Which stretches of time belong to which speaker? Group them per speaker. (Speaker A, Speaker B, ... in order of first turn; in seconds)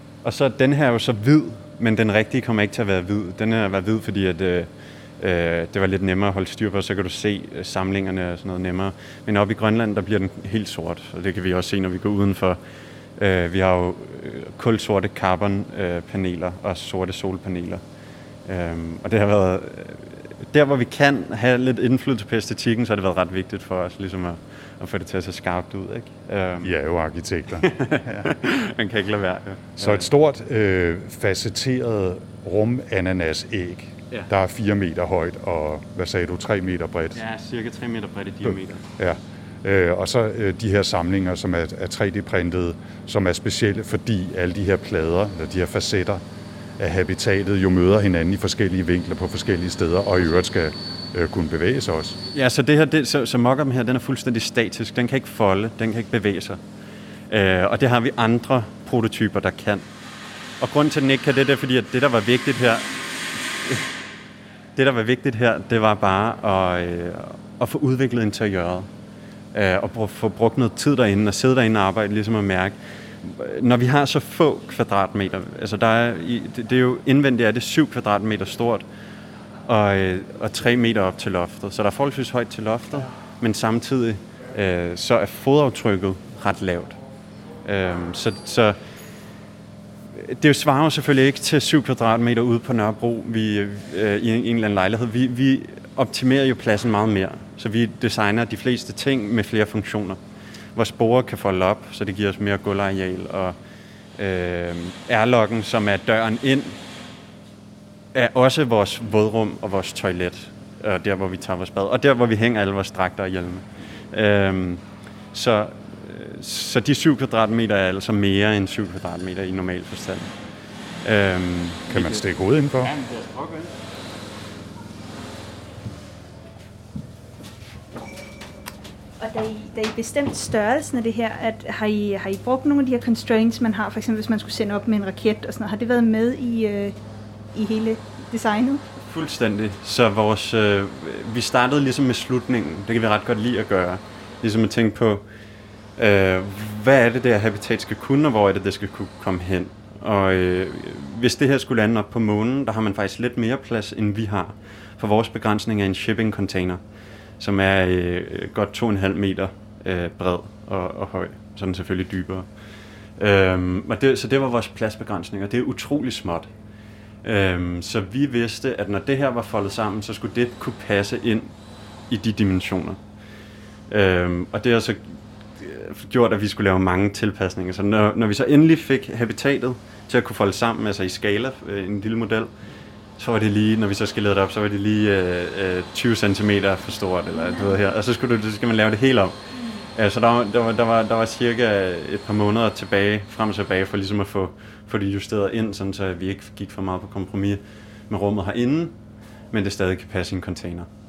Speaker A: 0.2-12.6, 13.2-17.8, 18.5-26.7, 27.6-30.1, 37.1-38.9, 52.3-56.6, 57.3-59.8, 60.6-63.0, 63.6-63.9, 64.8-68.9, 69.5-78.9, 79.7-87.0, 87.7-88.8, 90.1-100.2, 100.8-103.6, 104.2-106.8, 108.1-114.8, 115.3-120.3, 121.0-122.2, 122.8-123.7, 139.0-145.2, 146.0-156.8, 157.4-162.5, 163.2-166.5, 167.2-171.5, 172.1-173.0, 173.9-182.5, 183.2-189.3, 189.9-198.9, 199.5-200.9
Speaker B: 26.6-28.3, 29.8-37.2, 38.5-46.2, 46.8-52.2, 121.9-123.0
Speaker C: 129.2-137.0, 137.5-138.8